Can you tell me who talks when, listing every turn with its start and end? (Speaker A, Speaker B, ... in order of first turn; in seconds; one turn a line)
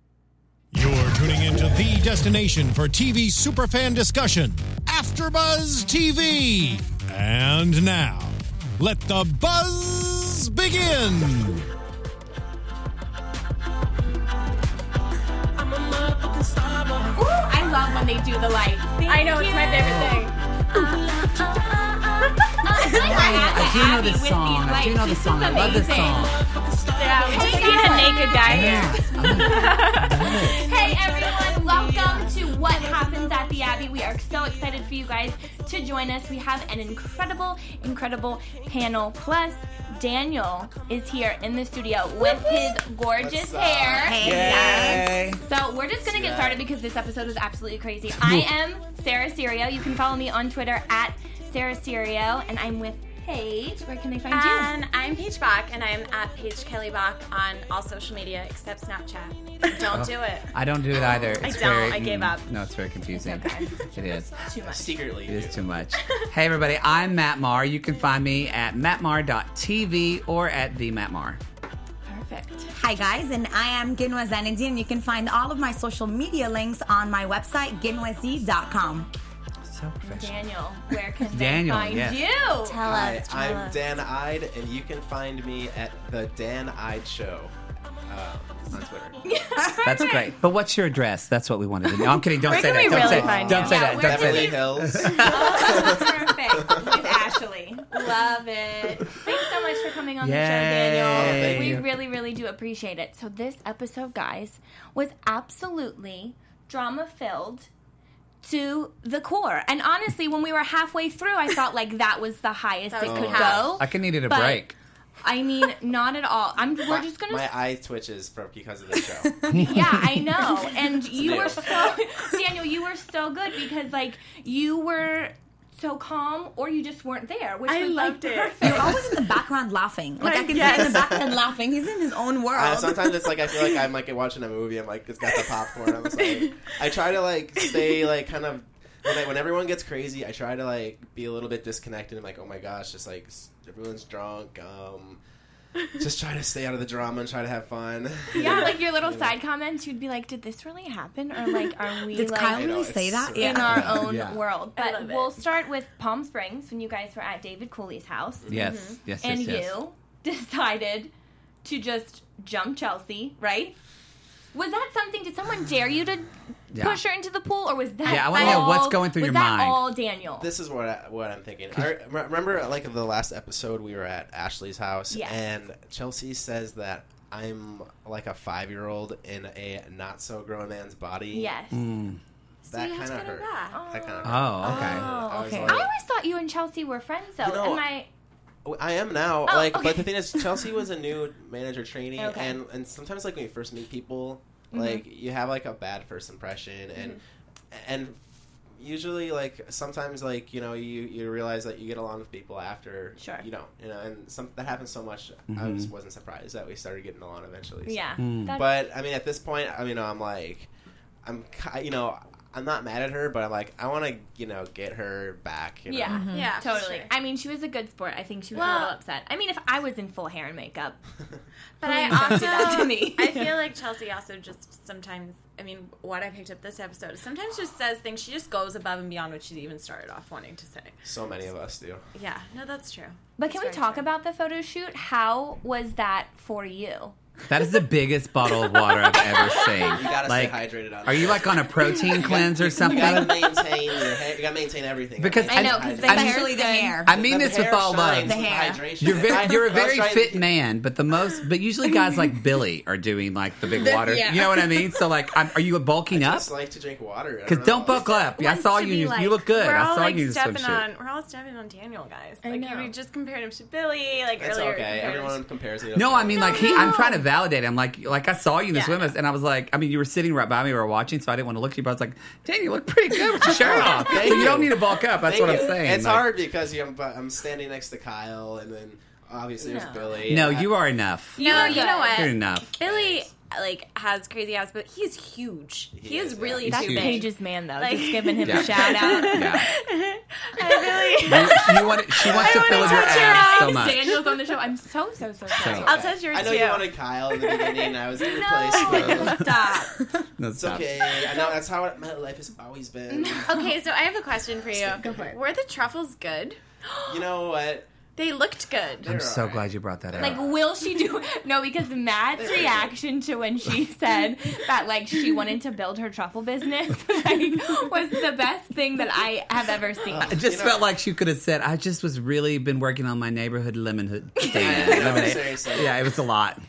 Speaker A: 0.7-11.7
Speaker B: 17.1-20.3
Speaker C: 19.1-20.3
Speaker D: 19.7-20.2
Speaker B: 22.4-26.4
Speaker D: 22.9-26.4
Speaker C: 26.9-30.8
Speaker B: 26.9-54.7
Speaker E: 27.4-28.1
Speaker D: 28.4-30.7
Speaker F: 43.1-44.5
Speaker E: 44.0-45.1
Speaker D: 44.2-45.4
Speaker F: 46.0-46.6
Speaker D: 48.1-48.5
Speaker C: 54.3-62.5
Speaker D: 59.9-64.4
Speaker B: 63.1-65.0
Speaker F: 64.6-65.9
Speaker D: 65.2-71.4
Speaker C: 66.0-66.2
Speaker B: 72.0-72.7
Speaker E: 72.7-79.1
Speaker D: 79.6-80.3
Speaker B: 80.0-82.8
Speaker D: 81.3-82.2
Speaker C: 82.6-83.8
Speaker F: 82.8-87.5
Speaker F: 88.1-89.2
Speaker B: 89.2-90.3
Speaker D: 89.8-95.5
Speaker C: 92.3-93.9
Speaker F: 92.6-97.2
Speaker B: 92.9-107.7
Speaker D: 100.2-101.9
Speaker F: 101.1-101.8
Speaker B: 108.4-114.7
Speaker C: 112.9-113.7
Speaker F: 113.0-113.8
Speaker D: 113.8-114.7
Speaker B: 115.2-117.5
Speaker F: 116.9-119.6
Speaker D: 119.5-119.8
Speaker B: 119.5-129.1
Speaker F: 121.1-121.9
Speaker C: 127.7-129.0
Speaker E: 128.6-133.1
Speaker C: 130.2-131.2
Speaker F: 130.6-131.3
Speaker F: 132.5-145.2
Speaker C: 133.5-133.7
Speaker C: 135.2-136.7
Speaker C: 137.6-138.1
Speaker F: 145.9-149.3
Speaker B: 148.3-152.7
Speaker C: 148.3-148.7
Speaker E: 152.1-154.0
Speaker F: 152.4-154.0
Speaker B: 153.3-158.6
Speaker D: 153.8-154.4
Speaker C: 154.7-155.4
Speaker D: 158.5-159.7
Speaker C: 158.5-159.0
Speaker B: 159.2-161.1
Speaker B: 161.6-163.7
Speaker B: 164.5-170.5
Speaker D: 166.7-167.0
Speaker D: 168.0-169.8
Speaker C: 168.1-168.7
Speaker F: 170.4-181.5
Speaker B: 175.1-175.4
Speaker B: 181.3-181.8
Speaker D: 181.7-182.2
Speaker C: 182.7-183.8
Speaker F: 182.7-185.9
Speaker B: 183.7-188.1
Speaker D: 184.2-185.1
Speaker E: 185.3-185.7
Speaker F: 187.4-187.9
Speaker F: 188.6-197.2
Speaker B: 189.5-190.7
Speaker B: 192.2-192.6
Speaker B: 194.7-195.0
Speaker F: 197.7-210.7
Speaker B: 203.2-203.4
Speaker D: 205.5-205.9
Speaker B: 207.8-208.8
Speaker D: 208.2-208.5
Speaker F: 211.2-216.3
Speaker B: 215.9-221.0
Speaker E: 216.1-216.5
Speaker C: 216.3-217.1
Speaker C: 218.5-218.9
Speaker C: 221.8-231.0
Speaker B: 221.8-223.6
Speaker F: 231.0-232.0
Speaker C: 232.1-234.1
Speaker B: 233.4-237.2
Speaker D: 237.5-243.5
Speaker B: 238.7-240.0
Speaker F: 239.9-246.4
Speaker B: 242.8-243.5
Speaker D: 245.2-246.4
Speaker B: 245.4-247.0
Speaker E: 245.9-247.1
Speaker D: 247.0-248.5
Speaker F: 247.1-250.4
Speaker E: 248.2-249.4
Speaker D: 249.0-256.5
Speaker E: 253.7-254.9
Speaker F: 256.1-258.0
Speaker D: 257.4-260.9
Speaker B: 257.9-259.5
Speaker C: 259.5-265.4
Speaker B: 262.4-262.9
Speaker F: 264.4-266.8
Speaker D: 265.9-276.3
Speaker B: 266.7-267.1
Speaker C: 268.7-269.1
Speaker F: 273.5-280.8
Speaker B: 273.6-274.6
Speaker B: 279.6-280.2
Speaker D: 280.3-282.7
Speaker B: 281.4-282.3
Speaker C: 281.4-294.4
Speaker F: 282.8-283.3
Speaker F: 285.9-286.8
Speaker D: 286.6-287.2
Speaker B: 286.6-289.5
Speaker D: 288.4-289.7
Speaker B: 290.6-291.7
Speaker D: 291.2-294.2
Speaker F: 292.2-293.5
Speaker B: 292.4-296.0
Speaker D: 295.5-295.9
Speaker F: 295.6-299.5
Speaker C: 295.8-298.0
Speaker B: 298.2-299.9
Speaker C: 298.7-299.4
Speaker D: 299.0-299.5
Speaker D: 300.4-300.9
Speaker F: 300.6-303.5
Speaker B: 303.1-303.7
Speaker C: 303.5-306.6
Speaker F: 304.7-305.2
Speaker E: 305.0-305.3
Speaker F: 307.1-307.9
Speaker C: 308.2-309.1
Speaker D: 309.0-310.4
Speaker F: 309.0-310.4
Speaker B: 310.1-320.4
Speaker F: 312.3-312.9
Speaker F: 320.1-321.0
Speaker D: 320.3-326.6
Speaker B: 324.4-325.2
Speaker F: 324.5-326.1